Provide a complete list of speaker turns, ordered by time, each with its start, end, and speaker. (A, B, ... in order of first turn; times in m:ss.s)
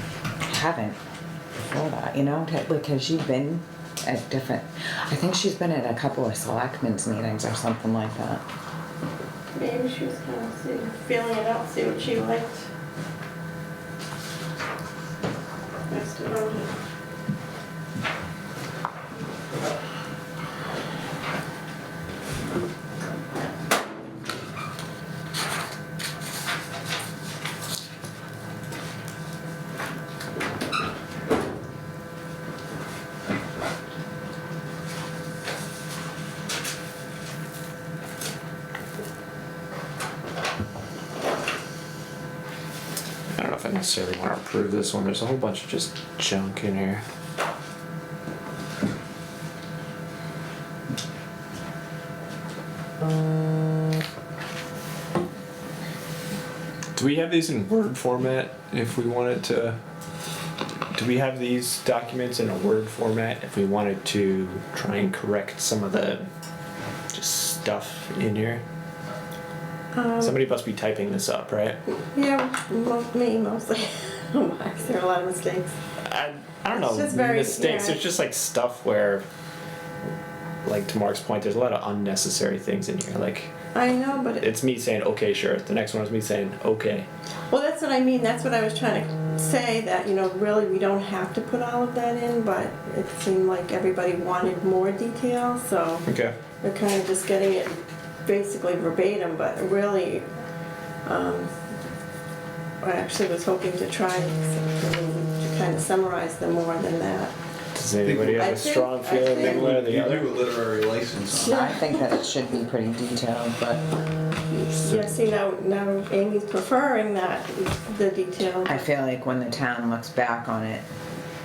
0:00.4-0:01.0 A
0:01.7-0:08.4 A
0:09.5-0:12.6 B
0:15.9-0:16.7 B
0:43.3-0:47.0 C
0:57.0-0:59.8 C
1:00.9-1:06.2 C
1:07.1-1:08.6 C
1:09.9-1:10.4 B
1:10.2-1:11.8 C
1:12.1-1:15.8 B
1:16.0-1:19.2 C
1:16.7-1:18.0 B
1:20.6-1:23.5 C
1:23.7-1:24.5 B
1:24.4-1:27.1 C
1:27.5-1:36.1 B
1:36.0-1:36.3 C
1:36.6-1:40.2 B
1:41.0-1:41.5 B
1:42.8-1:47.3 B
1:47.7-1:50.2 C
1:48.0-1:48.7 D
1:48.4-1:49.6 B
1:49.3-1:51.7 D
1:51.4-1:52.1 B
1:51.4-1:53.8 A
1:54.6-1:58.8 B
1:58.6-2:00.8 A